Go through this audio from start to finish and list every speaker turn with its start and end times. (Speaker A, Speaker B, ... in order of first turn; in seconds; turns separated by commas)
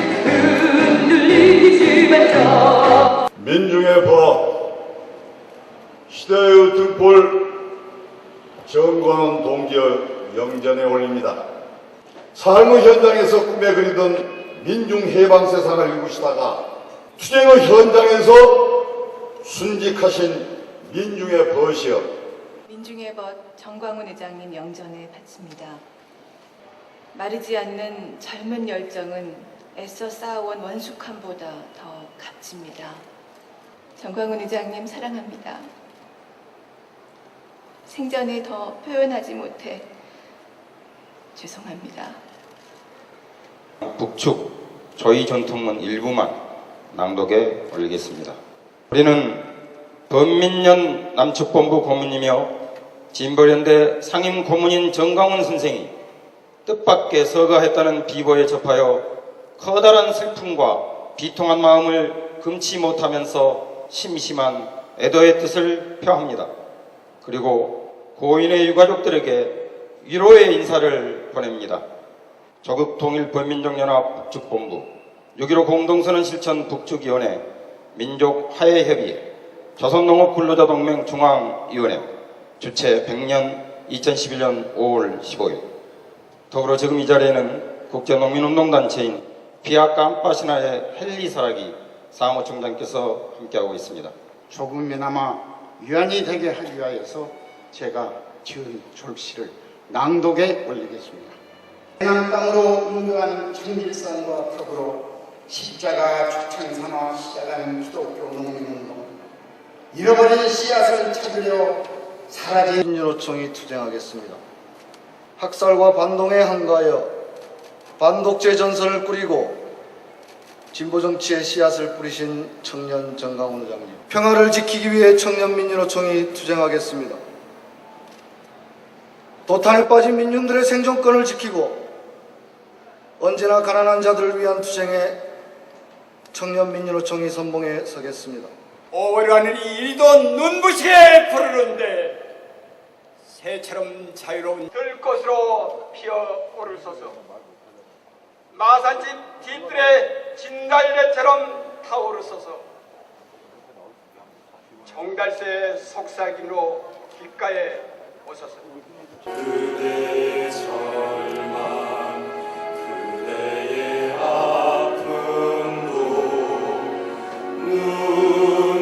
Speaker A: 1.5-2.5, Speaker B: 3.4-4.7, Speaker B: 6.1-7.7, Speaker B: 8.7-11.4, Speaker B: 12.3-16.6, Speaker B: 17.2-18.9, Speaker B: 19.4-22.1, Speaker A: 22.7-25.8, Speaker A: 27.1-33.1, Speaker A: 34.0-35.7, Speaker A: 37.9-39.9, Speaker A: 41.4-42.2, Speaker C: 43.8-46.3, Speaker C: 46.9-48.4, Speaker C: 48.9-49.5, Speaker C: 50.1-52.5, Speaker C: 53.1-55.9, Speaker C: 56.7-59.0, Speaker C: 59.6-66.5, Speaker C: 67.2-71.8, Speaker C: 72.6-77.4, Speaker C: 78.0-79.2, Speaker C: 79.8-82.1, Speaker C: 82.6-85.6, Speaker C: 86.5-94.1, Speaker D: 94.5-101.4, Speaker D: 102.0-109.1, Speaker D: 109.9-112.8, Speaker E: 112.8-114.4, Speaker E: 115.4-117.1, Speaker E: 118.0-119.7, Speaker E: 120.7-127.2, Speaker E: 129.5-131.8, Speaker E: 133.2-135.2, Speaker E: 136.3-138.5, Speaker F: 138.9-142.2, Speaker F: 143.3-147.2, Speaker F: 148.5-152.7, Speaker F: 154.9-158.7